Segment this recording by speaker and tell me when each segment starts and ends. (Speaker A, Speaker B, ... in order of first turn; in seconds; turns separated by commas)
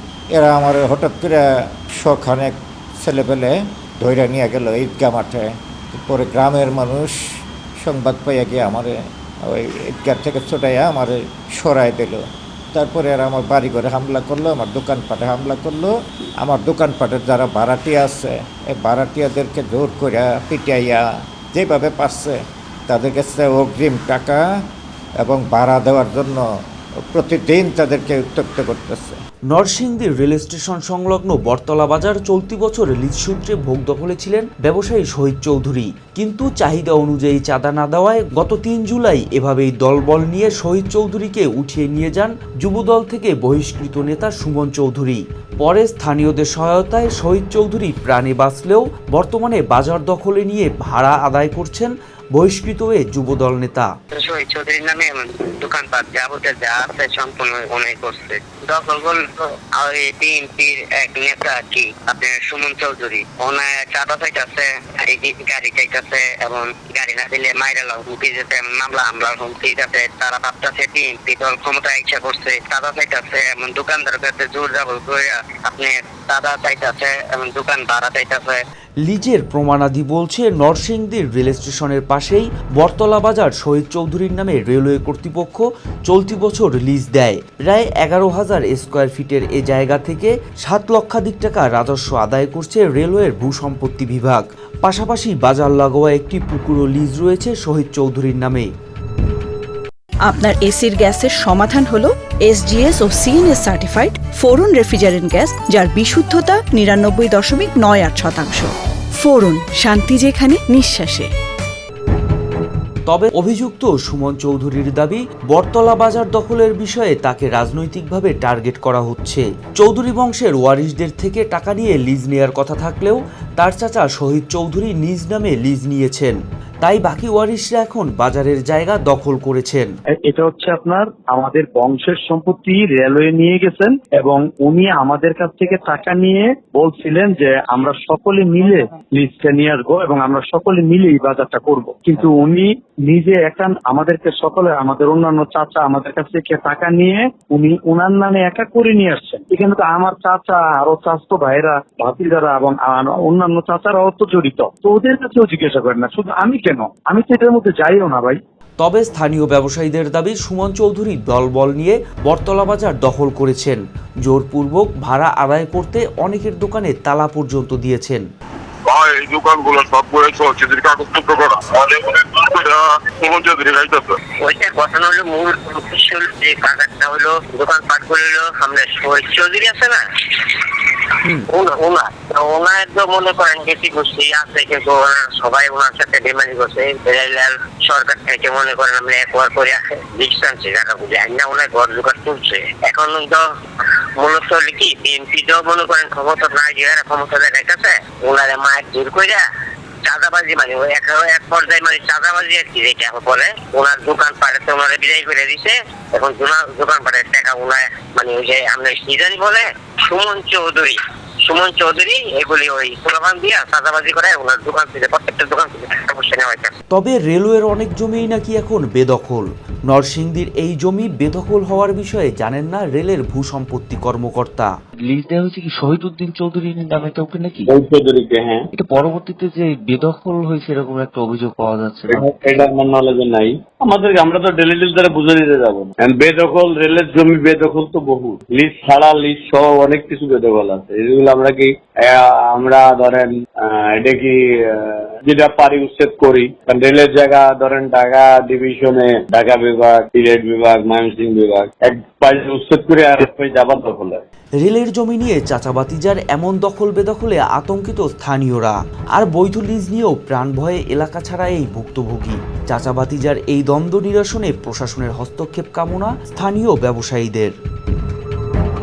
Speaker A: 0.3-1.4, Speaker A: 2.0-7.2, Speaker A: 7.8-24.4, Speaker A: 25.2-26.4, Speaker A: 27.1-29.2, Speaker B: 29.5-53.9, Speaker C: 54.1-78.6, Speaker B: 79.0-98.7, Speaker D: 100.2-108.7, Speaker D: 109.2-111.3, Speaker B: 113.1-129.9, Speaker E: 130.2-158.4, Speaker B: 158.8-168.2, Speaker F: 168.8-174.2, Speaker C: 174.4-193.4, Speaker C: 194.2-199.4, Speaker C: 200.0-216.7, Speaker B: 216.9-224.7, Speaker G: 225.0-227.7, Speaker H: 227.7-228.7, Speaker G: 228.7-232.7, Speaker H: 232.1-254.2, Speaker B: 254.6-267.5